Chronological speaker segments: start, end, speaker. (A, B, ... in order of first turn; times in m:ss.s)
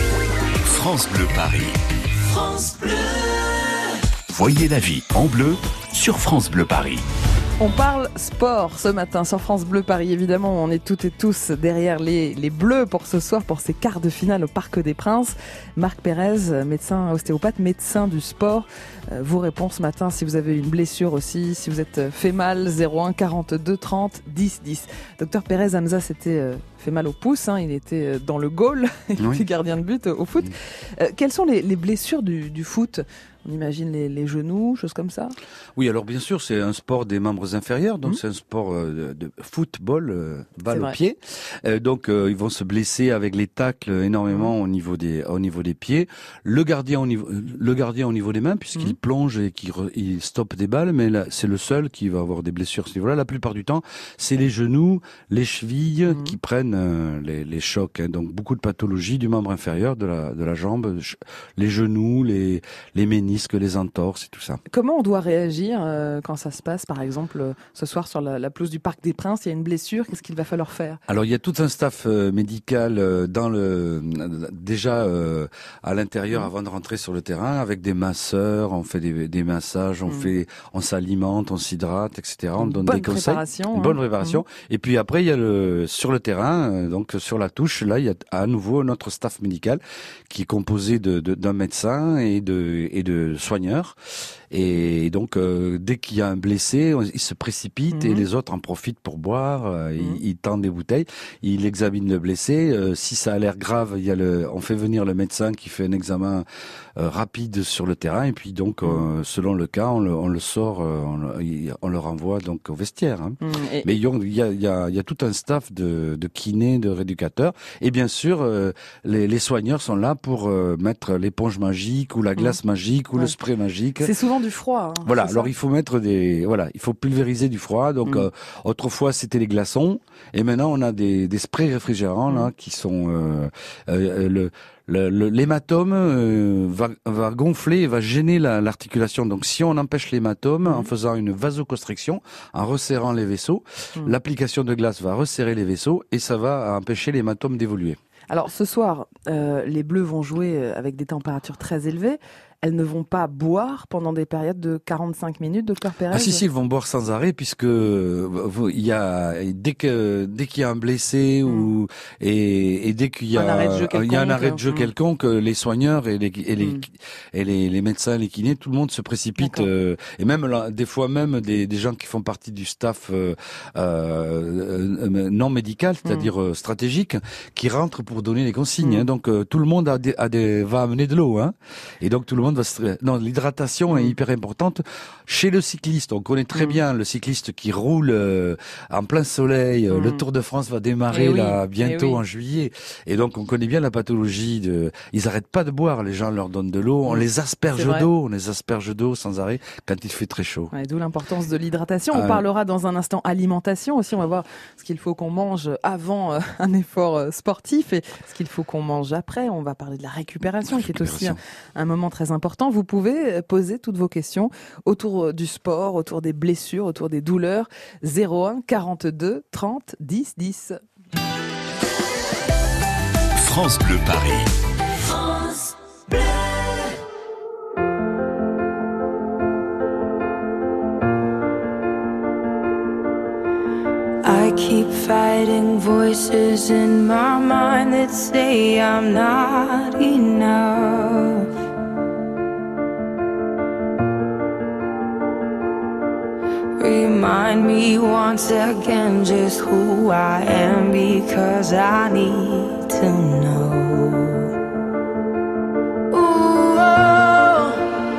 0:00.6-0:01.8 A
0:04.3-0:07.0 A
0:07.6-0:35.3 B
0:29.2-0:29.4 C
0:35.7-1:04.6 C
0:40.7-0:40.9 B
0:56.1-0:56.4 B
1:04.7-1:11.0 B
1:11.1-1:34.0 C
1:22.6-1:24.4 B
1:34.5-1:46.4 C
1:37.9-1:38.2 B
1:47.0-2:04.1 C
1:53.4-1:53.9 B
2:04.0-2:05.5 B
2:05.0-2:28.0 C
2:28.3-2:36.4 B
2:36.1-3:20.7 C
2:41.4-2:41.7 B
2:43.3-2:44.9 B
2:49.4-2:49.7 B
2:56.0-2:56.3 B
3:06.5-3:06.8 B
3:09.9-3:10.2 B
3:11.1-3:12.2 B
3:17.1-3:18.0 B
3:20.7-3:40.8 B
3:22.1-3:22.4 C
3:30.6-3:31.4 C
3:43.3-3:44.5 A
3:54.2-4:01.5 D
4:06.8-4:14.5 D
4:16.1-4:17.9 D